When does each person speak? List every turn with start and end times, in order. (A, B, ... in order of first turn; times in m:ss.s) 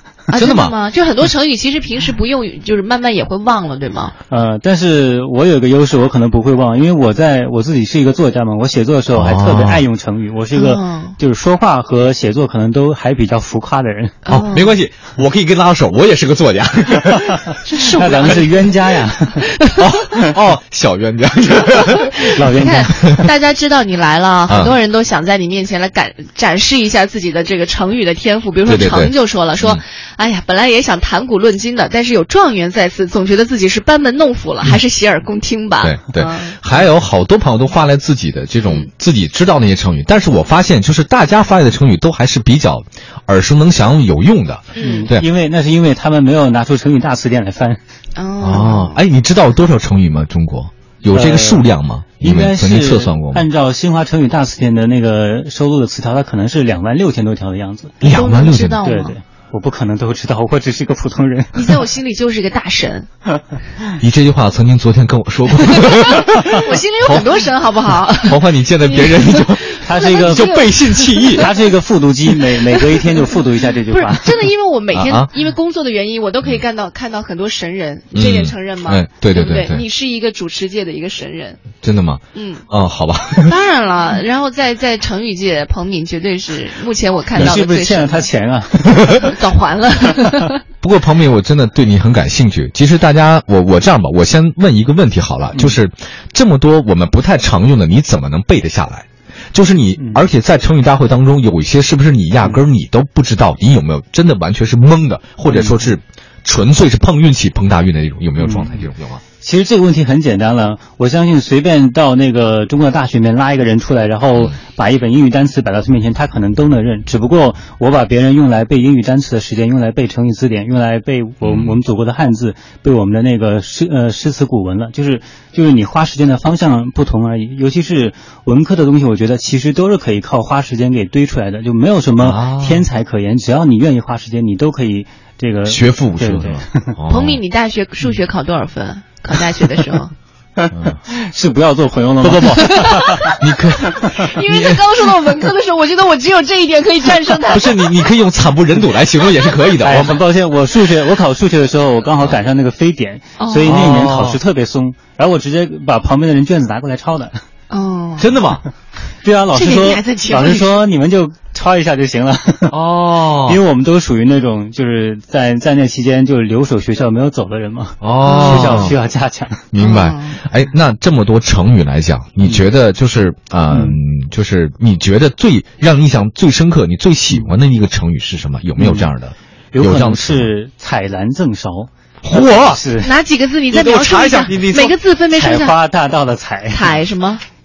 0:00.3-0:04.1 A
0:00.4-0:00.7 B
0:04.3-0:14.2 C
0:09.1-0:09.8 B
0:10.5-0:11.2 A
0:14.3-0:14.8 A
0:14.3-0:17.5 B
0:17.6-0:18.7 A
0:17.9-0:20.4 C
0:19.9-0:23.0 B
0:22.3-0:36.6 A
0:22.3-0:23.3 C
0:24.5-0:24.7 B
0:28.7-0:29.8 B
0:35.8-0:45.3 B
0:44.8-0:45.1 A
0:44.8-0:47.8 C
0:48.2-0:49.0 A
0:48.4-0:53.5 B
0:51.1-0:58.0 C
0:58.0-0:58.8 B
0:58.0-0:59.2 A
0:58.8-1:01.8 C
1:01.5-1:03.1 A
1:04.0-1:07.5 B
1:06.2-1:11.5 A
1:08.2-1:11.6 B
1:09.8-1:10.6 C
1:11.2-1:14.5 C
1:13.9-1:21.6 A
1:14.9-1:15.3 B
1:18.1-1:19.8 B
1:21.8-1:23.5 B
1:22.3-1:22.7 A
1:23.4-1:28.3 A
1:27.4-1:29.4 C
1:29.1-1:30.6 A
1:30.8-1:49.2 B
1:40.0-1:40.2 C
1:45.5-1:45.9 C
1:48.4-1:48.9 C
1:49.4-2:17.0 C
2:01.4-2:01.8 B
2:12.2-2:12.9 B
2:15.6-2:17.4 B
2:17.1-2:20.1 A
2:20.6-2:23.4 C
2:22.2-2:24.8 B
2:22.6-2:23.4 A
2:24.0-2:27.7 A
2:27.5-2:30.2 B
2:29.7-2:37.4 C
2:33.4-2:33.8 A
2:33.7-2:34.4 B
2:37.7-2:38.3 A
2:38.2-2:38.6 B
2:39.2-2:42.8 C
2:39.5-2:40.8 A
2:42.7-2:43.6 B
2:43.3-2:49.7 C
2:48.0-2:49.0 B
2:48.2-2:48.9 A
2:49.7-3:00.5 B
2:49.8-2:50.4 A
2:52.4-2:52.7 C
2:53.7-2:54.0 C
2:58.8-2:59.1 C
2:59.7-3:03.1 C
3:02.2-3:02.8 B
3:03.0-3:05.8 A
3:03.7-3:05.0 B
3:05.3-3:06.9 C
3:06.7-3:07.4 A